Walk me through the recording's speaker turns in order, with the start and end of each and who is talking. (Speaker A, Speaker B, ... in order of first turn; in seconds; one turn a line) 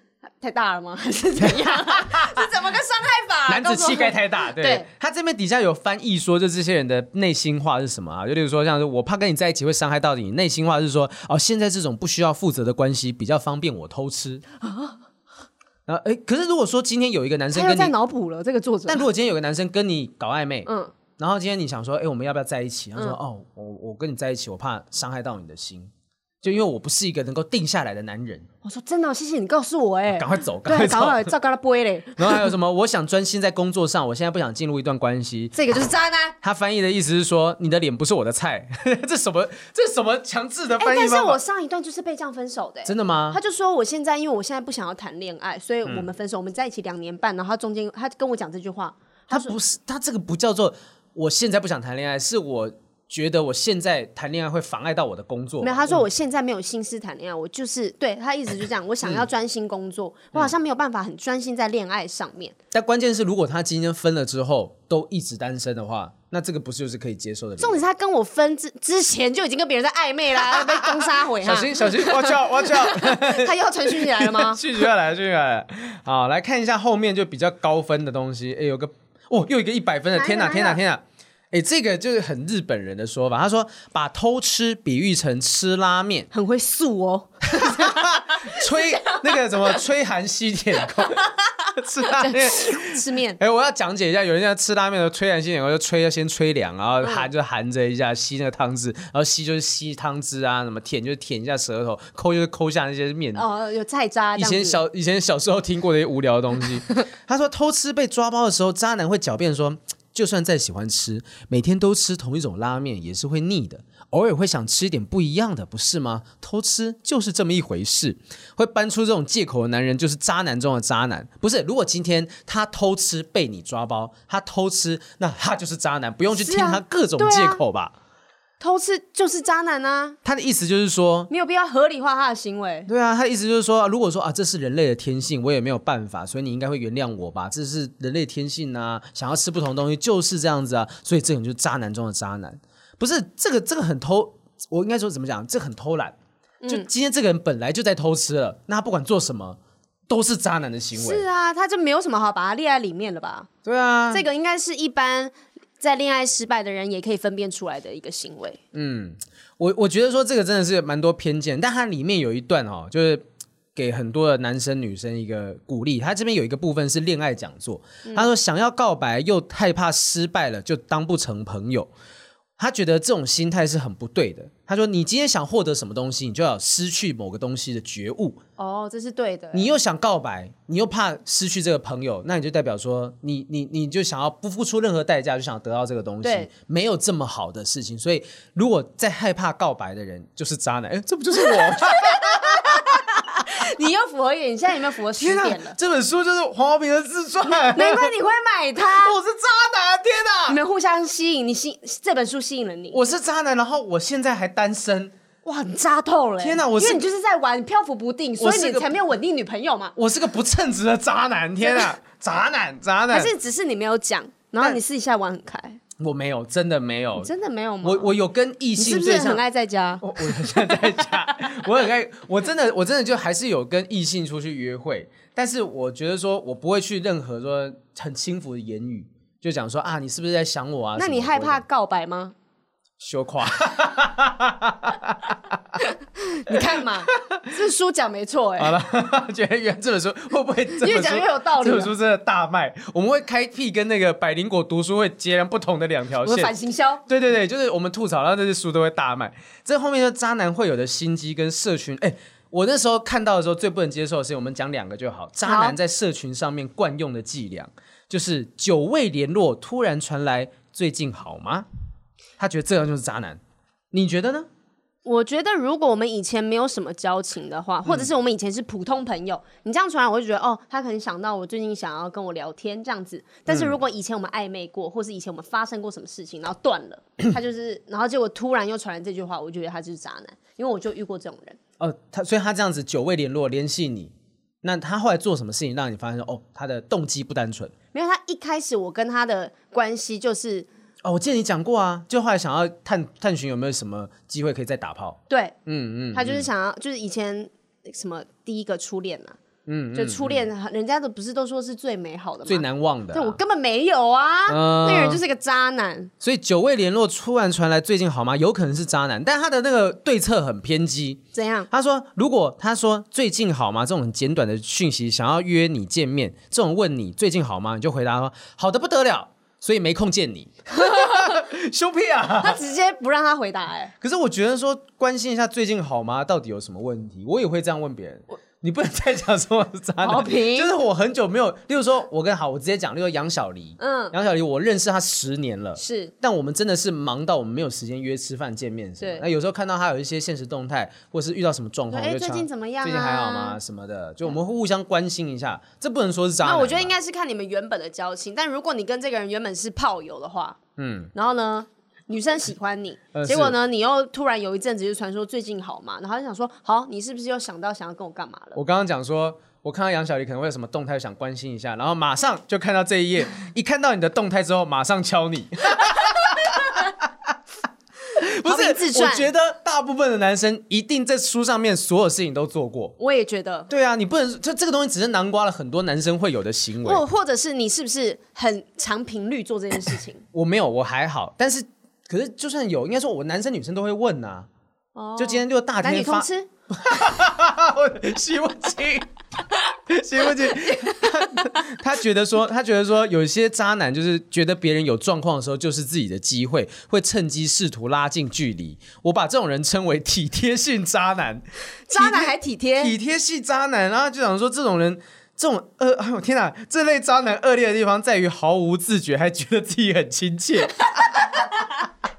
Speaker A: 0.4-4.9
Speaker B: 1.4-2.5
Speaker B: 3.5-14.4
Speaker A: 14.6-14.9
Speaker B: 15.9-17.9
Speaker A: 17.5-19.0
Speaker B: 18.9-28.5
Speaker A: 20.6-20.9
Speaker A: 28.6-32.5
Speaker B: 30.1-31.3
Speaker B: 32.2-35.5
Speaker A: 35.5-36.4
Speaker B: 36.4-41.4
Speaker A: 40.8-49.5
Speaker B: 42.8-43.4
Speaker B: 49.3-56.0
Speaker A: 55.6-62.5
Speaker B: 62.7-67.8
Speaker A: 67.6-74.8
Speaker B: 70.4-86.3
Speaker A: 80.1-80.8
Speaker A: 86.3-89.8
Speaker B: 87.5-103.4
Speaker A: 92.0-93.4
Speaker A: 97.0-97.3
Speaker A: 103.3-104.8
Speaker B: 104.3-127.9
Speaker A: 126.3-127.6
Speaker A: 128.6-130.2
Speaker B: 130.2-131.3
Speaker A: 131.3-132.9
Speaker B: 132.9-151.2
Speaker A: 146.6-146.9
Speaker A: 150.9-153.5
Speaker B: 153.6-154.2
Speaker A: 154.1-158.6
Speaker B: 158.7-163.2
Speaker B: 163.8-171.9
Speaker B: 172.6-178.4
Speaker A: 178.6-179.7
Speaker B: 179.5-193.0
Speaker A: 186.2-186.5
Speaker A: 191.5-195.8
Speaker B: 195.2-198.1
Speaker A: 197.4-199.2
Speaker B: 198.9-200.6
Speaker A: 200.5-203.1
Speaker B: 202.9-205.1
Speaker A: 205.4-209.9
Speaker B: 206.4-207.1
Speaker B: 208.4-209.0
Speaker B: 209.9-213.3
Speaker A: 213.1-215.8
Speaker B: 216.0-217.3
Speaker A: 217.2-218.1
Speaker B: 217.8-219.4
Speaker A: 218.8-221.0
Speaker B: 220.0-231.6
Speaker A: 230.9-232.3
Speaker B: 233.0-235.8
Speaker A: 235.9-238.8
Speaker B: 236.5-237.4
Speaker B: 238.6-246.5
Speaker A: 240.8-241.9
Speaker A: 246.2-247.0
Speaker B: 247.1-261.7
Speaker A: 255.4-255.8
Speaker B: 262.4-263.4
Speaker B: 263.9-264.5
Speaker A: 265.0-281.6
Speaker B: 273.5-273.8
Speaker B: 281.8-287.7
Speaker A: 287.9-290.7
Speaker B: 291.0-296.5
Speaker A: 295.3-295.5
Speaker A: 296.1-299.4
Speaker B: 299.6-300.4
Speaker A: 299.9-306.1
Speaker B: 302.4-303.4
Speaker B: 304.5-305.2
Speaker B: 306.2-322.6
Speaker A: 311.3-311.7
Speaker A: 320.8-321.2
Speaker A: 322.4-323.9
Speaker B: 324.0-346.9
Speaker A: 330.0-330.7
Speaker A: 333.8-334.1
Speaker A: 335.8-336.1
Speaker A: 339.0-339.2
Speaker A: 341.9-343.6
Speaker A: 346.4-350.6
Speaker B: 350.8-351.1
Speaker A: 351.1-358.6
Speaker B: 353.1-353.6
Speaker B: 358.5-367.1
Speaker A: 366.4-366.7
Speaker B: 368.1-372.9
Speaker A: 368.4-369.3
Speaker A: 373.0-373.7
Speaker B: 373.7-377.0
Speaker A: 376.8-380.2
Speaker B: 380.3-384.5
Speaker A: 384.9-386.5
Speaker B: 385.2-411.4
Speaker A: 390.7-391.0
Speaker A: 401.9-402.9
Speaker A: 410.9-411.8